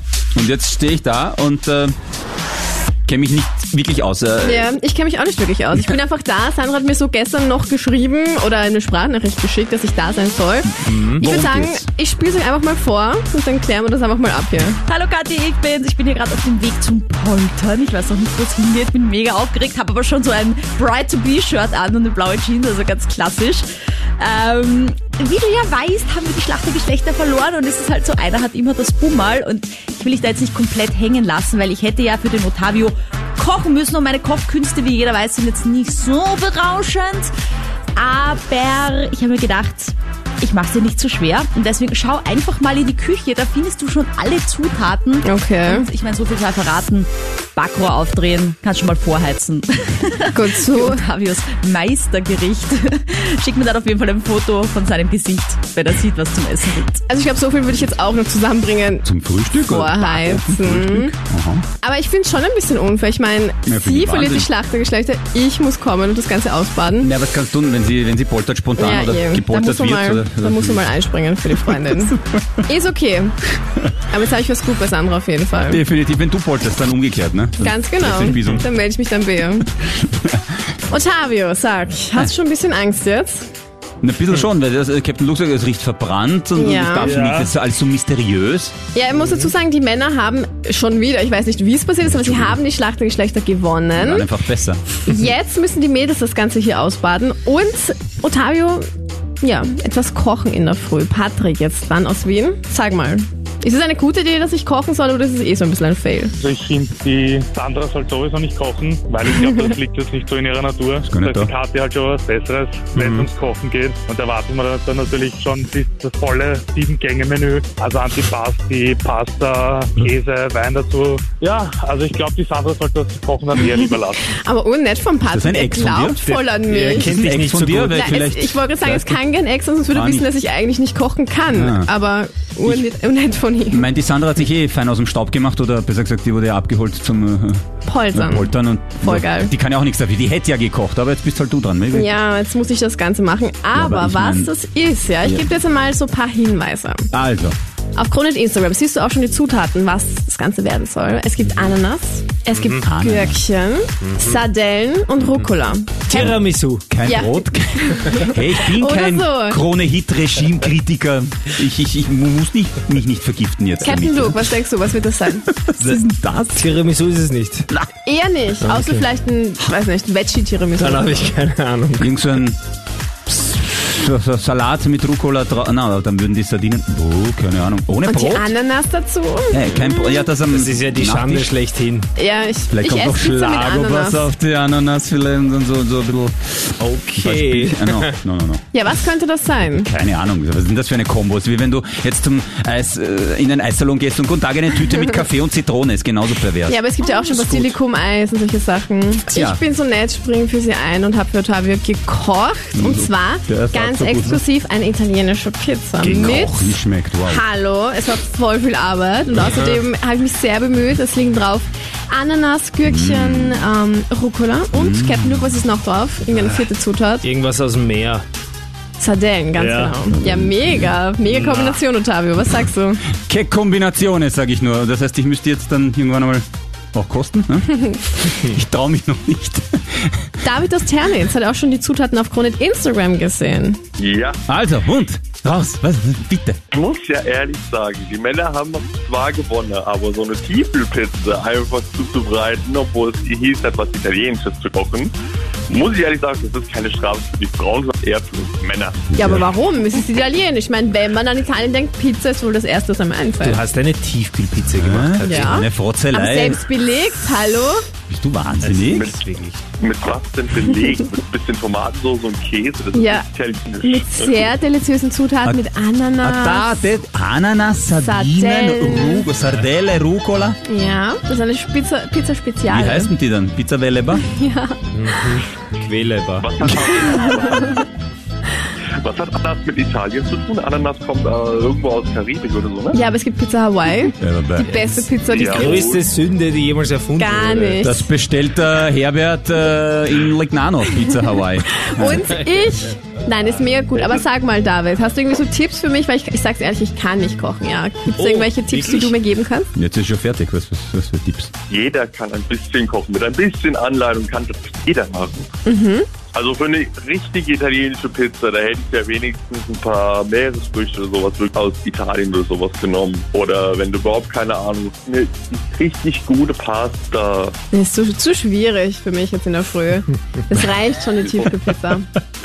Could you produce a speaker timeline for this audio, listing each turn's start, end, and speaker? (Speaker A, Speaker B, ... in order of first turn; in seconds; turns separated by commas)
Speaker A: 0.3-1.9, Speaker A: 3.0-4.7, Speaker B: 4.4-14.8, Speaker A: 10.8-11.9, Speaker C: 10.9-11.2, Speaker D: 14.8-23.7, Speaker D: 24.2-37.3, Speaker D: 38.0-57.0, Speaker B: 45.2-45.9, Speaker B: 50.3-51.0, Speaker B: 57.1-61.1, Speaker A: 59.0-61.6, Speaker B: 61.8-67.1, Speaker A: 63.7-64.5, Speaker A: 67.0-70.9, Speaker B: 68.8-73.3, Speaker A: 71.7-71.9, Speaker B: 74.1-75.8, Speaker A: 75.7-78.6, Speaker B: 77.6-79.7, Speaker A: 80.0-80.4, Speaker B: 80.9-83.5, Speaker A: 84.0-88.7, Speaker B: 86.5-87.2, Speaker E: 87.1-87.5, Speaker B: 88.9-94.3, Speaker A: 92.0-92.5, Speaker A: 94.0-95.0, Speaker B: 95.0-98.9, Speaker B: 99.4-106.3, Speaker E: 106.4-124.3, Speaker A: 111.0-111.5, Speaker B: 123.8-127.2, Speaker A: 125.3-126.2, Speaker C: 126.4-128.0, Speaker A: 127.0-129.2, Speaker B: 127.9-133.9, Speaker A: 129.9-130.3, Speaker A: 131.5-131.9, Speaker A: 133.7-137.6, Speaker B: 137.8-139.5, Speaker A: 138.1-142.1, Speaker B: 141.9-147.1, Speaker A: 143.7-144.5, Speaker A: 147.1-147.6, Speaker B: 148.0-156.3, Speaker A: 152.8-153.4, Speaker C: 154.0-154.4, Speaker A: 156.1-156.4, Speaker C: 156.2-156.9, Speaker A: 156.9-164.5, Speaker B: 157.1-159.6, Speaker B: 163.8-165.5, Speaker A: 165.4-166.7, Speaker C: 166.5-167.7, Speaker B: 168.1-171.3, Speaker C: 168.6-169.1, Speaker C: 170.8-172.1, Speaker A: 172.0-172.6, Speaker A: 173.3-178.5, Speaker B: 178.1-180.3, Speaker A: 179.5-181.5, Speaker C: 180.5-182.1, Speaker B: 182.2-184.3, Speaker A: 182.7-188.6, Speaker C: 186.8-188.2, Speaker B: 188.7-189.9, Speaker A: 189.8-196.8, Speaker B: 196.7-217.2, Speaker A: 199.3-199.6, Speaker A: 202.7-204.4, Speaker A: 206.0-207.4, Speaker C: 209.5-209.8, Speaker A: 212.8-213.7, Speaker A: 214.7-215.6, Speaker C: 216.3-216.6, Speaker C: 217.2-218.2, Speaker B: 219.0-223.0, Speaker C: 219.6-220.0, Speaker A: 220.1-220.8, Speaker C: 221.3-221.8, Speaker A: 223.2-230.2, Speaker B: 230.4-233.8, Speaker F: 234.0-234.4, Speaker A: 234.5-236.6, Speaker F: 236.7-245.1, Speaker F: 245.7-249.1, Speaker A: 249.1-249.5, Speaker B: 249.2-253.6, Speaker C: 253.4-255.6, Speaker A: 254.7-256.6, Speaker B: 255.2-257.9, Speaker A: 258.1-259.1, Speaker C: 258.6-259.6, Speaker F: 258.9-259.2, Speaker F: 259.8-264.5, Speaker B: 262.9-263.2, Speaker B: 263.8-266.8, Speaker A: 266.2-270.6, Speaker B: 268.0-269.3, Speaker B: 270.7-273.1, Speaker A: 272.7-274.2, Speaker B: 274.3-275.4, Speaker C: 274.9-276.5, Speaker F: 276.4-277.8, Speaker F: 279.0-283.0, Speaker B: 282.9-285.8, Speaker A: 284.2-285.1, Speaker F: 285.3-286.0, Speaker C: 285.5-287.8, Speaker B: 287.2-288.1, Speaker A: 287.8-292.2, Speaker B: 291.8-299.7, Speaker C: 298.1-299.1, Speaker A: 299.8-301.5, Speaker F: 301.7-305.5, Speaker B: 305.6-306.1, Speaker F: 306.3-317.5, Speaker B: 317.7-322.1, Speaker F: 321.2-321.5